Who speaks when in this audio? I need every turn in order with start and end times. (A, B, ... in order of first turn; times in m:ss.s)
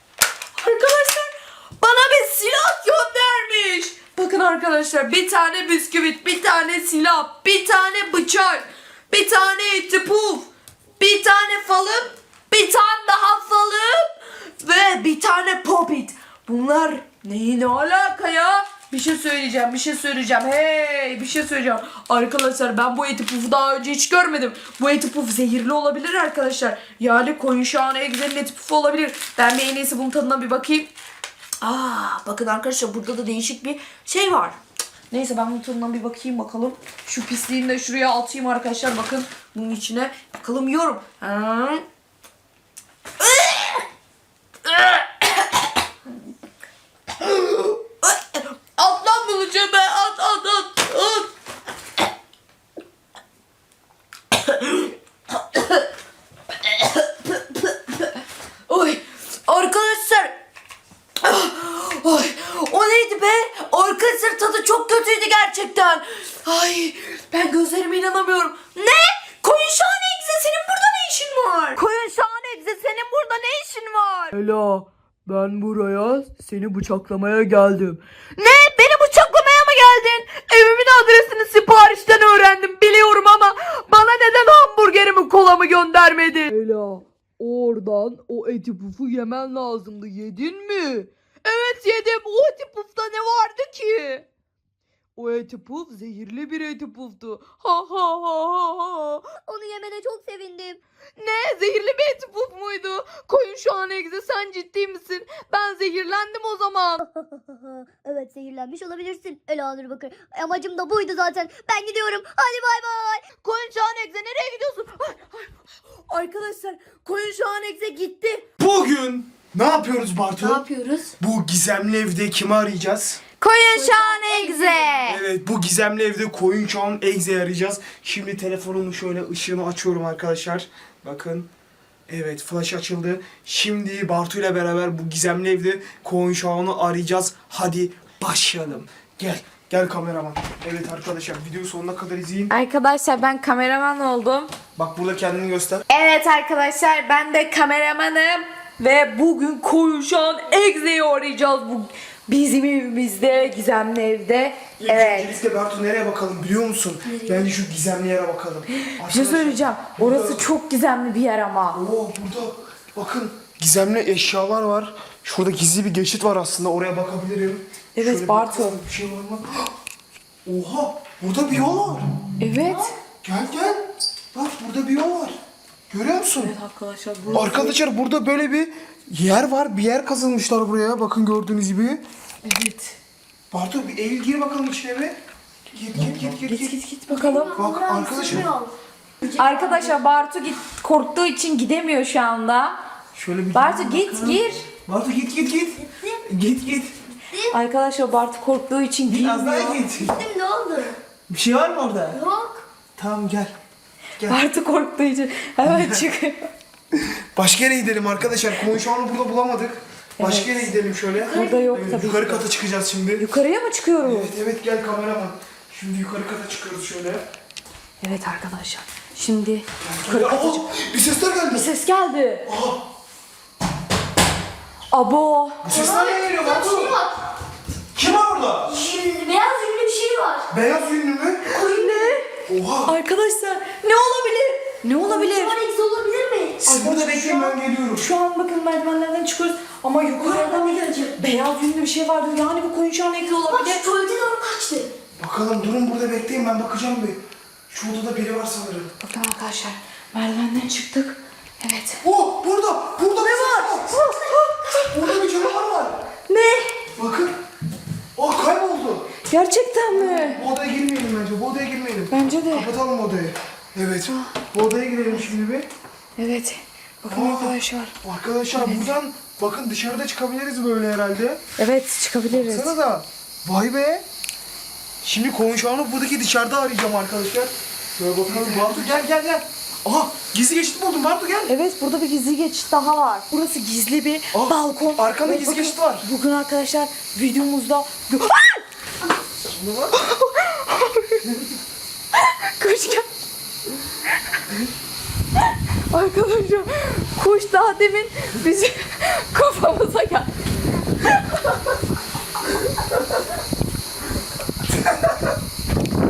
0:00.6-0:30.9 A
0:31.6-0:34.6 A
0:35.1-0:41.8 A
0:43.2-0:43.8 A
0:44.6-0:45.7 A
0:47.2-0:51.3 A
0:54.3-0:54.9 A
0:55.5-0:55.8 A
0:56.6-0:58.1 A
0:58.7-1:00.4 A
1:01.2-1:14.4 A
1:14.3-1:18.0 B
1:18.4-1:26.5 A
1:26.2-1:31.1 B
1:31.4-1:34.2 A
1:31.8-1:32.2 B
1:35.2-1:37.6 B
1:36.5-1:39.2 A
1:39.4-1:40.8 C
1:41.2-1:47.0 A
1:47.0-1:53.3 C
1:53.3-1:55.5 A
1:56.1-1:58.4 A
1:58.6-2:00.6 D
2:00.4-2:01.1 C
2:01.2-2:03.2 D
2:03.4-2:05.2 A
2:03.7-2:05.1 C
2:05.0-2:11.5 D
2:12.1-2:22.5 D
2:22.5-2:24.5 A
2:24.8-2:25.8 D
2:25.9-2:35.3 A
2:34.8-2:40.4 D
2:38.7-2:41.8 A
2:41.7-2:49.7 D
2:47.9-2:48.8 A
2:50.4-2:52.1 D
2:52.4-2:52.9 A
2:53.2-2:55.4 D
2:55.9-2:56.5 D
2:56.3-2:57.8 A
2:57.3-3:02.0 D
3:02.4-3:03.0 A
3:03.5-3:05.2 D
3:05.7-3:06.8 D
3:06.0-3:07.5 A
3:07.1-3:08.7 C
3:07.5-3:08.5 D
3:09.2-3:09.9 C
3:09.3-3:12.8 A
3:13.1-3:16.9 D
3:13.5-3:14.7 A
3:15.8-3:16.2 C
3:17.5-3:19.8 A
3:19.1-3:20.2 D
3:19.5-3:21.0 C
3:21.3-3:22.2 D
3:22.1-3:22.6 C
3:23.0-3:23.5 D
3:24.2-3:26.5 A
3:25.6-3:26.1 D
3:26.9-3:33.3 D
3:30.2-3:32.4 A
3:33.2-3:34.3 A
3:34.0-3:37.2 D
3:38.0-3:40.7 A
3:39.8-3:41.7 D
3:41.5-3:42.5 A
3:42.4-3:42.8 D
3:44.9-3:45.6 A
3:45.6-3:47.0 D
3:45.6-3:47.2 C
3:47.9-3:48.8 D
3:48.7-3:50.5 C
3:50.5-3:51.5 D
3:51.4-3:52.2 C
3:51.5-3:52.2 A
3:52.5-3:52.9 D
3:52.8-3:55.6 A
3:55.0-3:56.6 C
3:56.6-3:58.1 D
3:56.6-4:03.8 A
4:00.2-4:01.2 C
4:03.2-4:04.9 C
4:05.2-4:08.9 D
4:09.0-4:12.0 A
4:12.0-4:14.0 D
4:13.2-4:14.9 A
4:13.2-4:13.6 C
4:14.1-4:14.4 C
4:14.9-4:16.0 D
4:16.3-4:16.7 A
4:17.0-4:17.3 D
4:18.2-4:19.1 D
4:19.3-4:20.4 A
4:19.9-4:25.7 D
4:22.1-4:22.7 A
4:24.1-4:24.4 A
4:26.2-4:27.9 A
4:27.1-4:31.4 D
4:28.6-4:28.9 A
4:31.6-4:32.7 A
4:32.3-4:34.0 D
4:35.0-4:41.5 D
4:38.2-4:39.0 A
4:41.5-4:48.6 A
4:44.3-4:46.1 D
4:49.4-4:49.9 D
4:49.9-4:51.4 A
4:52.1-4:53.0 A
4:55.9-5:00.3 A
5:01.0-5:01.4 A